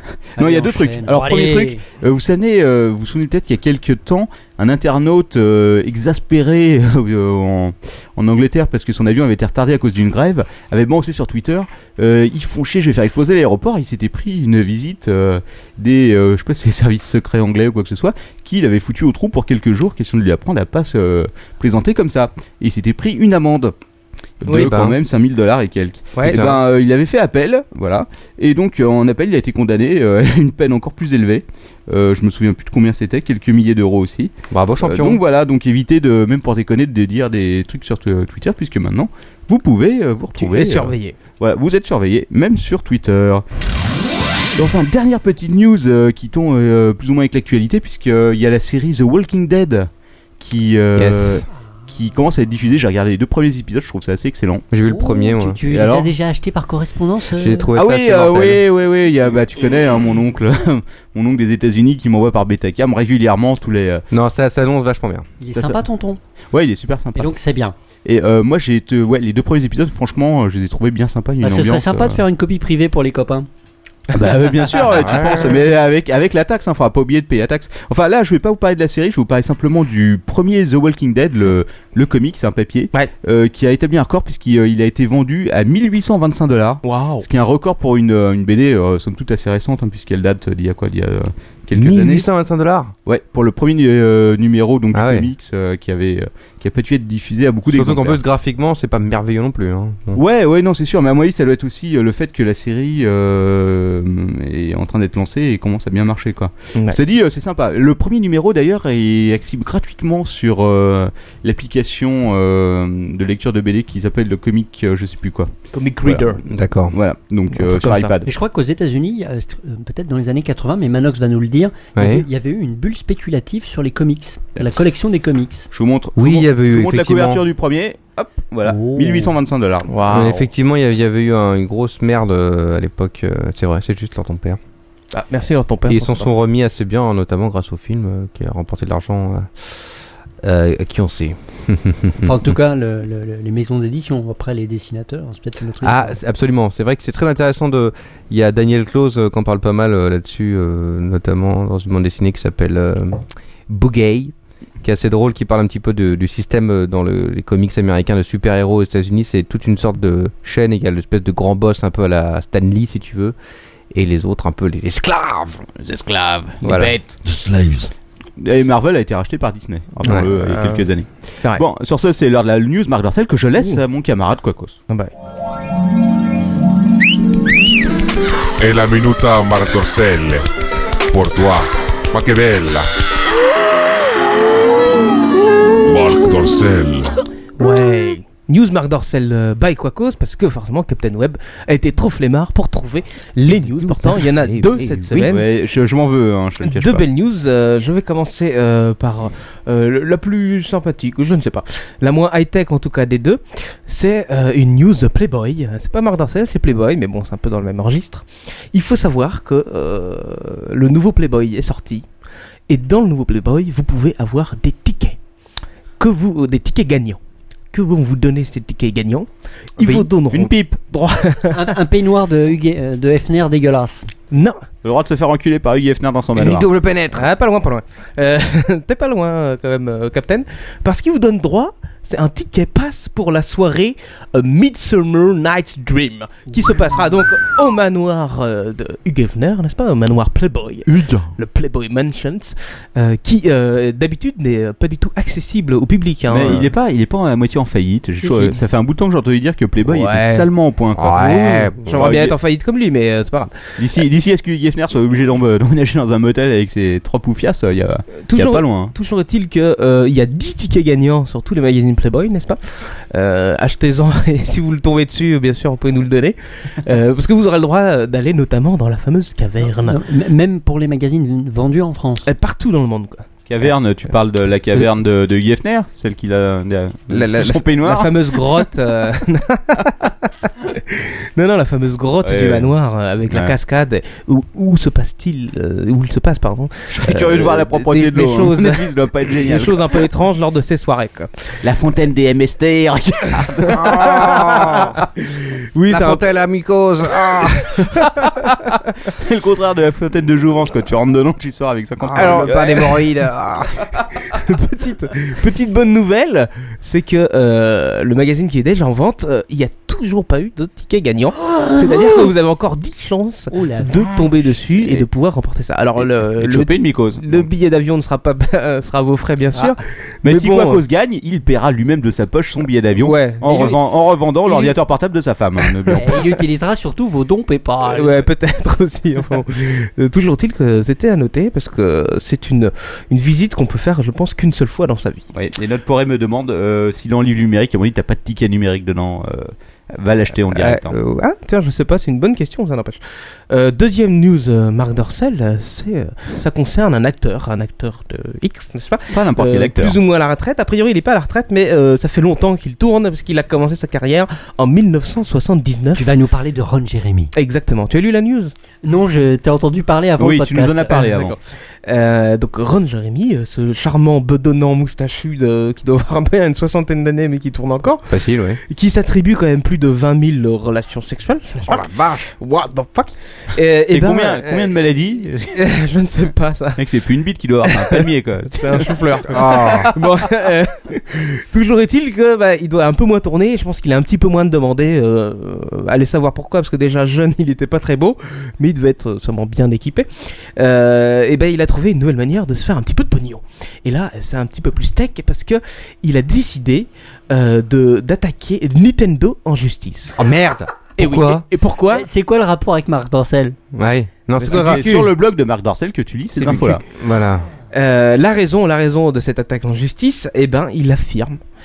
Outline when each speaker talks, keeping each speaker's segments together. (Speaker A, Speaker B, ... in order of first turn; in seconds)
Speaker A: 0.4-23.7, 24.4-43.4, 44.5-54.6, 55.6-56.1, 57.7-64.0, 65.5-65.8, 66.5-67.3, 68.0-72.2, 74.1-92.3, 93.0-98.2, 100.1-115.5, 116.0-116.4, 116.9-118.3, 125.7-130.4, 165.8-166.9, 168.4-174.8, 195.2-197.1, 220.3-220.8, 224.8-226.7, 240.9-241.3, 246.3-252.4, 253.8-258.9, 273.5-278.6, 282.2-282.7, 283.3-283.6, 286.9-290.0, 291.6-294.9, 298.0-303.0, 303.9-304.2, 314.8-315.1, 316.0-317.5, 320.2-326.2, 335.3-340.9, 349.1-350.0, 360.2-361.4, 373.9-375.4, 376.8-378.9, 404.4-406.8
Speaker B: 0.4-1.8, 54.9-57.7, 65.4-66.2, 67.2-67.7, 71.4-73.5, 118.3-125.7, 128.6-129.4, 142.2-146.2, 221.5-224.1, 248.2-248.5, 269.6-272.3, 313.5-314.2, 325.9-328.3, 355.9-357.3, 358.8-361.1, 401.9-403.6
Speaker C: 24.4-24.8, 26.1-26.5, 40.4-41.1, 74.1-75.5, 86.8-87.3, 106.8-107.0, 115.7-116.4, 117.6-118.1, 129.9-130.3, 135.1-136.3, 170.0-170.9, 173.6-173.8, 187.6-195.5, 196.6-212.0, 212.7-215.2, 216.0-217.2, 217.7-221.7, 224.3-224.6, 227.1-246.7, 249.8-250.5, 251.9-253.6, 258.3-270.0, 272.2-273.2, 277.1-291.5, 293.7-296.3, 297.6-298.1, 302.1-303.1, 304.3-320.8, 323.0-323.8, 324.4-324.8, 325.9-326.2, 327.8-335.3, 340.5-356.1, 357.3-358.6, 360.9-368.2, 368.7-371.9, 372.4-374.8, 375.4-376.8, 377.6-400.2, 401.0-402.1, 404.4-405.1, 406.4-406.8, 407.7-411.4
Speaker D: 24.5-25.0, 26.2-26.6, 34.5-35.2, 51.0-51.5, 54.7-55.6, 57.4-58.6, 64.1-65.3, 74.9-75.5, 91.7-92.9, 94.9-95.3, 97.7-100.2, 116.5-117.0, 122.0-122.3, 126.2-127.4, 130.1-134.6, 135.9-139.8, 140.4-142.5, 145.8-163.3, 163.9-165.7, 166.6-167.0, 170.1-170.3, 193.5-195.4, 219.8-220.1, 226.3-227.3, 250.9-251.9, 293.7-295.0, 295.9-297.9, 302.0-303.9, 368.1-368.6, 371.6-372.3, 379.3-379.9, 400.2-401.4, 403.7-405.0, 406.5-407.5
Speaker E: 178.6-180.4, 181.1-182.9, 185.8-187.1